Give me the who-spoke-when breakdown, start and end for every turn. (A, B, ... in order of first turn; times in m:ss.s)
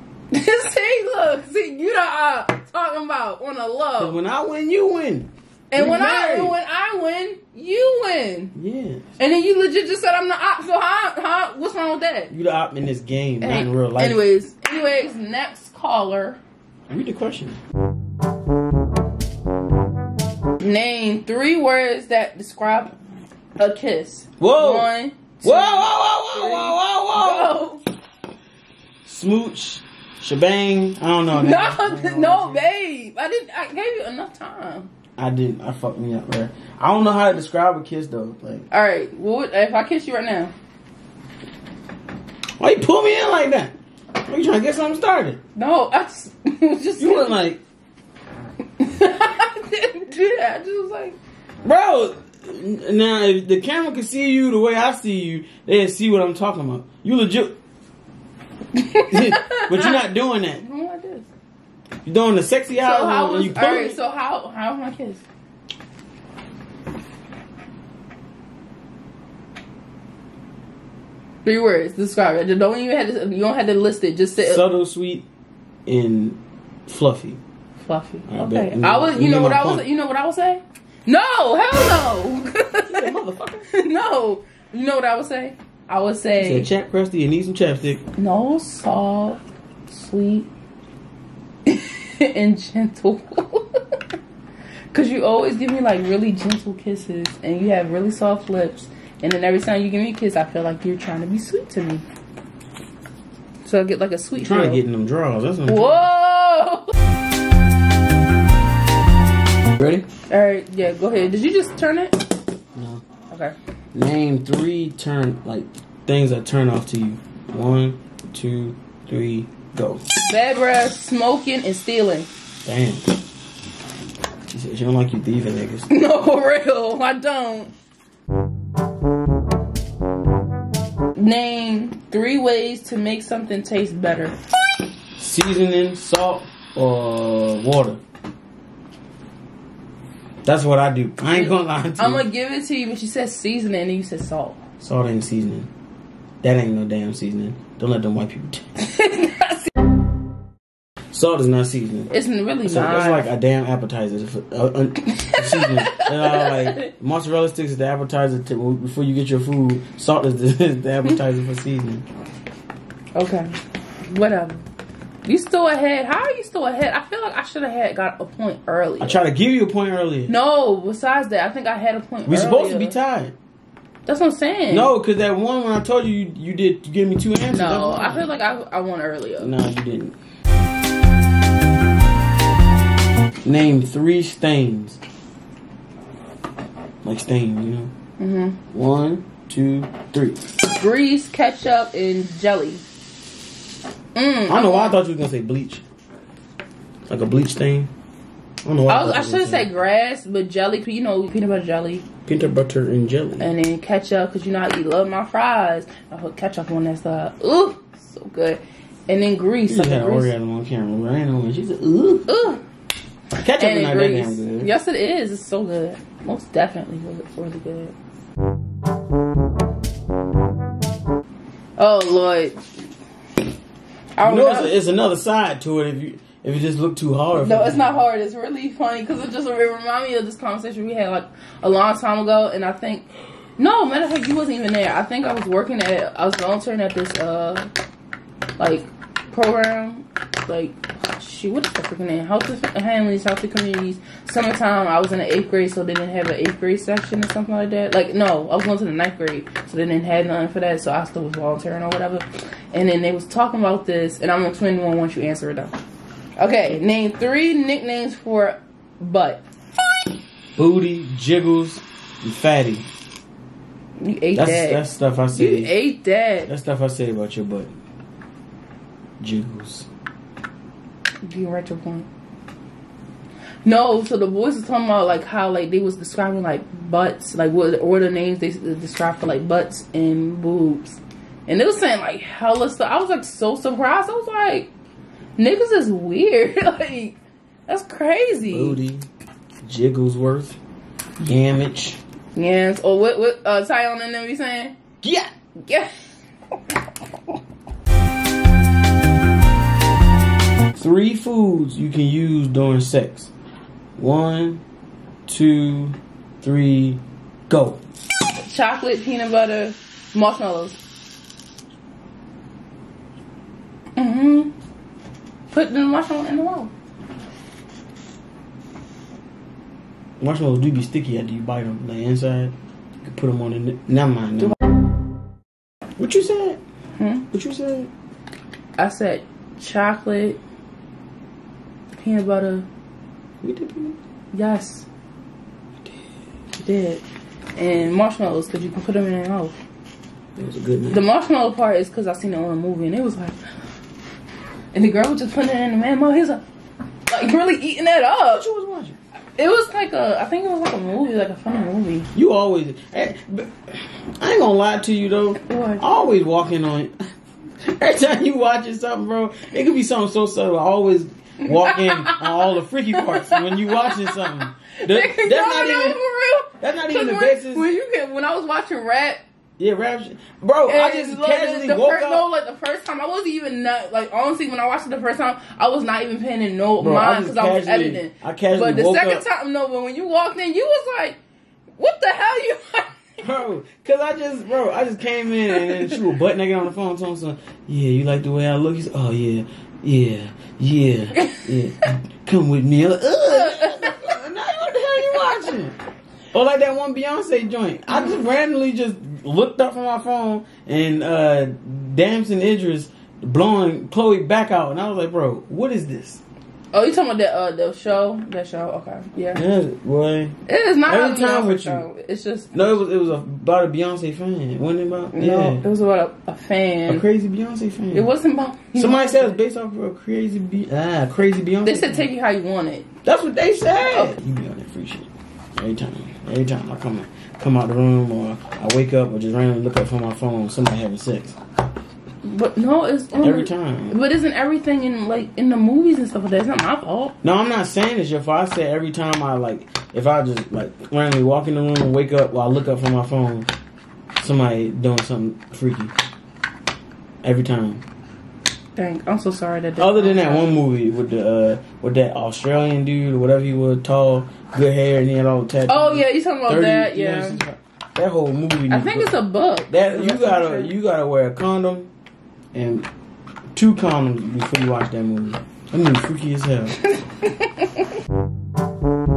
0:00.3-0:04.2 A
0:04.0-0:06.6 B
0:05.7-0:08.5 A
0:08.5-0:09.1 B
0:09.2-0:12.3 A
0:12.3-0:14.2 B
0:13.4-0:16.4 A
0:16.9-0:17.6 B
0:20.6-0:23.0 A
0:23.6-0:27.8 A
0:24.4-0:24.9 B
0:25.4-0:27.6 B
0:29.0-0:32.6 B
0:31.3-0:34.9 A
0:35.2-0:38.7 B
0:38.7-0:40.5 A
0:42.6-0:45.4 B
0:45.6-0:47.4 A
0:47.0-0:47.6 B
0:48.8-0:51.2 A
0:51.6-0:57.6 B
0:58.7-1:00.0 A
0:59.1-1:00.6 B
1:00.6-1:01.3 A
1:02.0-1:04.0 B
1:02.8-1:05.2 A
1:11.4-1:14.6 A
1:14.4-1:15.3 B
1:15.9-1:17.4 B
1:17.8-1:23.1 A
1:18.3-1:19.9 B
1:22.9-1:23.7 B
1:23.7-1:26.7 A
1:26.4-1:28.0 B
1:28.2-1:30.5 A
1:31.6-1:34.0 A
1:34.9-1:42.0 A
1:43.6-1:44.8 A
1:44.4-1:46.1 B
1:45.7-1:47.0 A
1:49.8-1:50.0 B
1:50.3-1:52.2 A
1:52.8-1:53.0 B
1:53.9-2:00.0 B
2:00.2-2:02.3 A
2:02.7-2:03.0 B
2:04.5-2:05.9 B
2:05.9-2:07.7 A
2:11.2-2:14.4 A
2:15.2-2:18.0 B
2:20.4-2:22.2 B
2:21.3-2:24.6 A
2:24.8-2:25.7 B
2:26.4-2:28.8 B
2:28.8-2:29.7 A
2:31.1-2:42.1 B
2:32.1-2:33.3 A
2:35.2-2:36.9 A
2:43.2-2:44.6 A
2:45.2-2:49.2 A
2:49.0-2:50.3 B
2:50.3-2:53.0 A
2:52.3-2:53.3 B
2:54.1-2:54.9 A
2:54.7-2:58.3 B
2:57.5-2:59.5 A
2:59.4-3:00.2 B
3:03.4-3:05.0 B
3:07.0-3:07.9 B
3:08.2-3:08.6 A
3:08.7-3:10.5 B
3:10.7-3:12.8 A
3:14.2-3:15.0 A
3:14.5-3:15.8 B
3:17.1-3:17.9 B
3:18.6-3:19.7 B
3:18.9-3:22.1 A
3:22.3-3:23.5 B
3:23.4-3:30.3 A
3:29.7-3:32.3 B
3:32.3-3:32.6 A
3:33.4-3:34.7 B
3:33.4-3:37.9 A
3:41.8-3:42.7 A
3:44.2-3:44.7 A
3:44.2-3:48.0 B
3:47.4-3:53.1 A
3:53.6-3:57.7 A
3:58.6-4:15.7 A
4:16.4-4:19.4 A
4:20.6-4:22.9 B
4:24.0-4:26.5 A
4:24.4-4:25.7 B
4:26.5-4:27.7 B
4:29.2-4:29.9 B
4:31.2-4:32.1 A
4:33.6-4:44.7 A
4:45.4-4:47.2 A
4:47.7-4:48.8 A
4:48.5-4:49.1 B
4:49.6-4:50.6 B
4:51.2-4:52.0 B
4:52.4-4:54.8 A
4:55.0-4:55.3 B
4:55.6-4:55.9 A
4:56.5-4:57.4 A
5:00.8-5:03.3 B
5:04.0-5:04.6 B
5:05.3-5:07.8 B
5:08.4-5:10.8 A
5:14.0-5:14.5 A
5:15.5-5:16.7 A
5:20.2-5:24.6 B
5:26.0-5:26.6 B
5:27.0-5:27.2 A
5:27.3-5:27.9 B
5:28.8-5:30.4 A
5:32.0-5:32.7 A
5:33.4-5:34.0 B
5:34.3-5:34.9 A
5:36.6-5:37.0 A
5:37.6-5:39.6 A
5:40.4-5:41.0 B
5:40.9-5:43.4 A
5:44.7-5:46.4 A
5:47.1-5:48.4 A
5:48.3-5:49.0 B
5:49.4-5:52.1 A
5:52.1-5:53.6 B
5:54.2-5:56.9 B
5:55.5-5:55.8 A
5:57.6-6:06.0 B
6:01.6-6:02.3 A
6:03.2-6:09.2 A
6:06.6-6:07.7 B
6:09.6-6:12.3 B
6:10.7-6:21.2 A
6:16.8-6:19.2 B
6:21.8-6:23.2 A
6:23.2-6:35.8 B
6:33.3-6:34.2 A
6:36.3-6:46.2 B
6:46.7-6:49.4 A
6:49.4-6:50.4 B
6:50.5-6:52.8 A
6:50.9-6:51.8 B
6:52.5-6:55.6 B
6:55.1-6:57.0 A
6:56.9-6:58.1 B
6:57.9-6:59.4 A
6:58.8-7:02.1 B
7:01.6-7:02.9 A
7:03.0-7:11.4 B
7:03.8-7:04.2 A
7:12.2-7:17.2 A
7:13.2-7:14.0 B
7:17.2-7:23.5 B
7:24.2-7:25.9 B
7:27.2-7:27.8 B
7:28.8-7:30.5 A
7:29.8-7:41.9 B
7:35.7-7:37.4 A
7:38.7-7:40.7 A
7:42.5-7:42.9 B
7:43.6-7:46.8 B
7:46.9-7:47.8 A